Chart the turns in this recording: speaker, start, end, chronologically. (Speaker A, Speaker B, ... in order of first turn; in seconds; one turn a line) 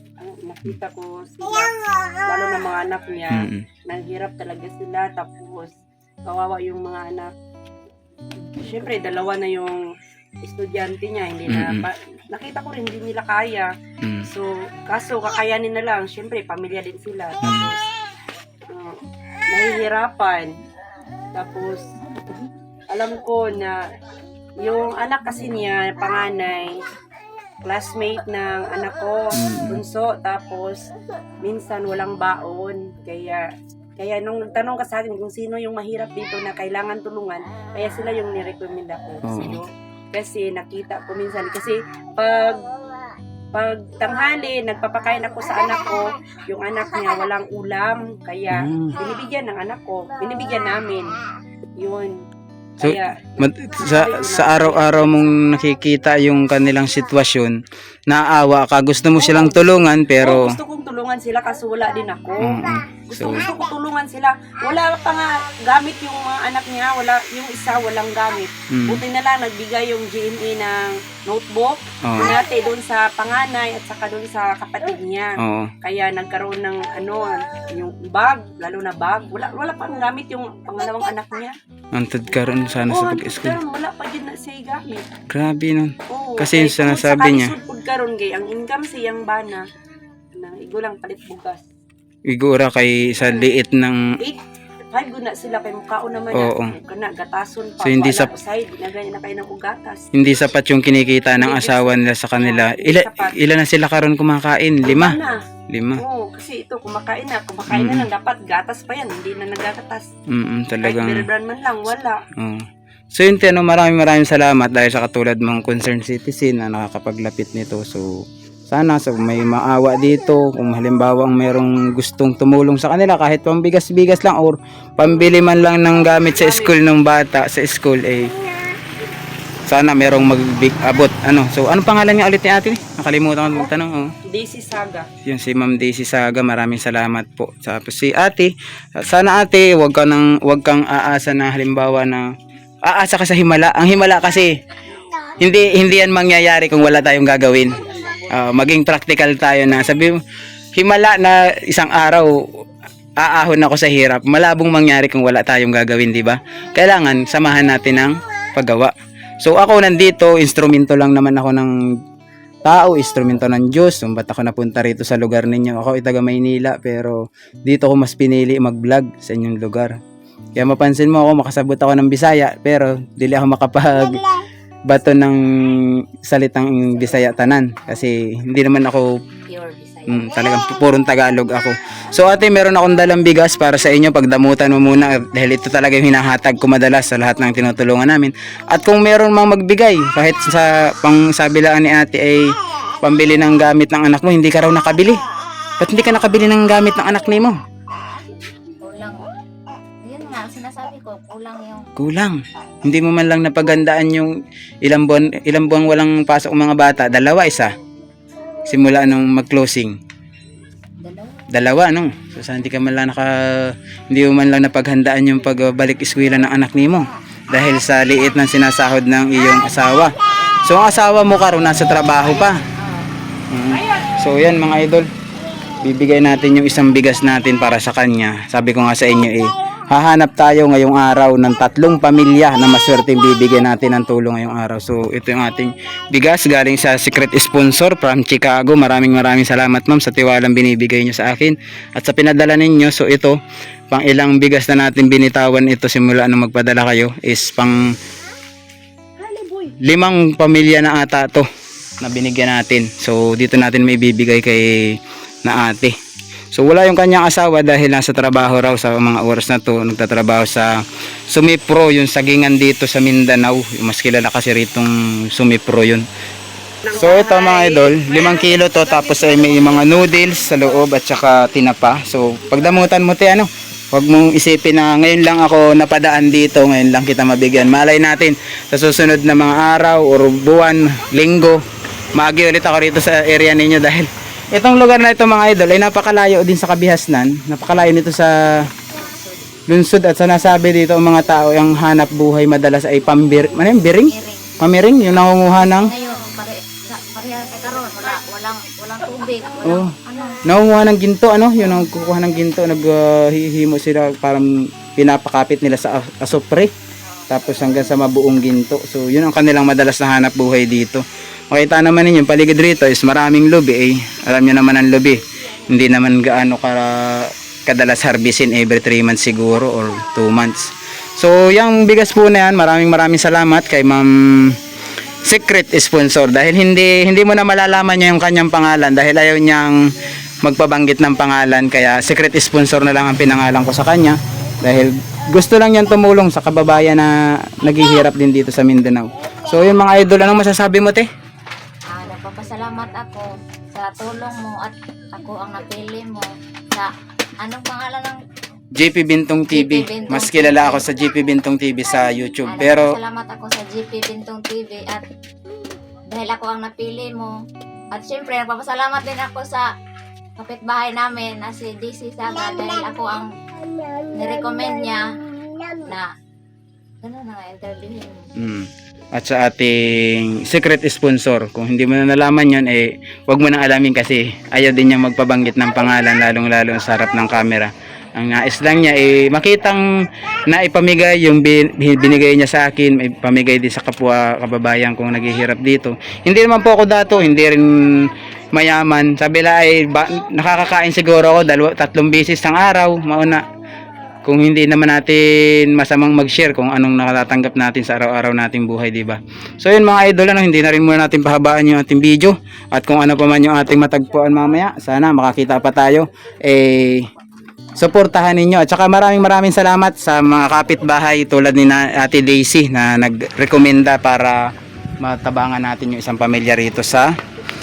Speaker A: 0.2-5.7
Speaker B: 3.3-3.7
Speaker A: 6.3-7.3
Speaker A: 8.5-9.9
Speaker A: 10.4-13.7
Speaker B: 11.5-11.9
Speaker B: 14.0-14.3
Speaker A: 14.2-17.8
Speaker B: 17.4-17.7
Speaker A: 18.7-20.5
Speaker A: 21.3-21.9
Speaker A: 22.9-23.9
Speaker A: 24.6-26.9
Speaker A: 27.6-42.7
Speaker B: 29.3-29.8
Speaker B: 39.2-39.6
Speaker A: 43.5-51.2
Speaker B: 48.5-49.0
Speaker A: 51.8-52.2
Speaker B: 52.8-57.5
Speaker A: 52.8-55.2
Speaker B: 58.1-60.5
Speaker A: 59.2-81.5
Speaker B: 62.4-63.5
Speaker B: 68.7-69.0
Speaker B: 72.0-72.3
Speaker B: 75.4-75.7
Speaker B: 81.9-83.6
Speaker A: 82.9-85.1
Speaker B: 85.3-87.6
Speaker A: 86.1-89.7
Speaker A: 90.4-91.6
Speaker B: 92.3-94.0
Speaker A: 94.9-100.1
Speaker B: 96.3-96.8
Speaker B: 97.8-98.3
Speaker B: 100.1-105.2
Speaker A: 101.4-103.4
Speaker A: 104.8-105.4
Speaker B: 105.7-106.0
Speaker A: 106.0-110.1
Speaker B: 107.7-108.1
Speaker B: 110.3-111.3
Speaker A: 110.8-112.2
Speaker B: 112.4-118.1
Speaker B: 118.7-128.3
Speaker A: 126.2-126.8
Speaker B: 129.7-134.1
Speaker A: 134.3-135.1
Speaker B: 135.2-142.3
Speaker B: 142.9-144.5
Speaker B: 145.4-150.2
Speaker C: 147.9-148.3
Speaker B: 150.8-152.3
Speaker B: 153.2-161.8
Speaker B: 162.7-169.9
Speaker B: 170.6-174.2
Speaker B: 174.9-179.1
Speaker C: 179.4-180.4
Speaker B: 180.1-195.2
Speaker B: 195.8-197.6
Speaker C: 198.8-199.3
Speaker C: 200.0-201.9
Speaker B: 202.0-204.3
Speaker B: 204.8-207.7
Speaker B: 208.7-210.0
Speaker C: 211.0-211.5
Speaker B: 211.5-222.6
Speaker C: 220.3-220.7
Speaker C: 222.8-223.1
Speaker B: 223.5-225.1
Speaker A: 223.8-224.2
Speaker B: 225.8-243.4
Speaker B: 243.9-247.8
Speaker A: 249.2-249.8
Speaker B: 249.8-251.5
Speaker B: 252.0-256.0
Speaker B: 256.5-260.7
Speaker B: 261.3-266.1
Speaker A: 266.9-270.9
Speaker B: 266.9-281.6
Speaker B: 282.1-288.4
Speaker C: 288.9-289.5
Speaker B: 289.7-295.9
Speaker C: 293.8-294.5
Speaker C: 295.8-300.4
Speaker B: 299.6-306.7
Speaker C: 307.0-307.4
Speaker B: 307.3-324.6
Speaker B: 325.2-341.1
Speaker C: 341.9-346.9
Speaker C: 347.4-348.2
Speaker B: 348.8-353.0
Speaker C: 349.5-350.9
Speaker C: 352.5-355.1
Speaker C: 356.1-357.3
Speaker C: 357.9-359.6
Speaker C: 360.4-366.1
Speaker C: 367.0-368.3
Speaker B: 368.4-379.9
Speaker B: 380.5-393.4
Speaker B: 394.2-407.1
Speaker B: 407.8-414.4
Speaker B: 415.0-417.1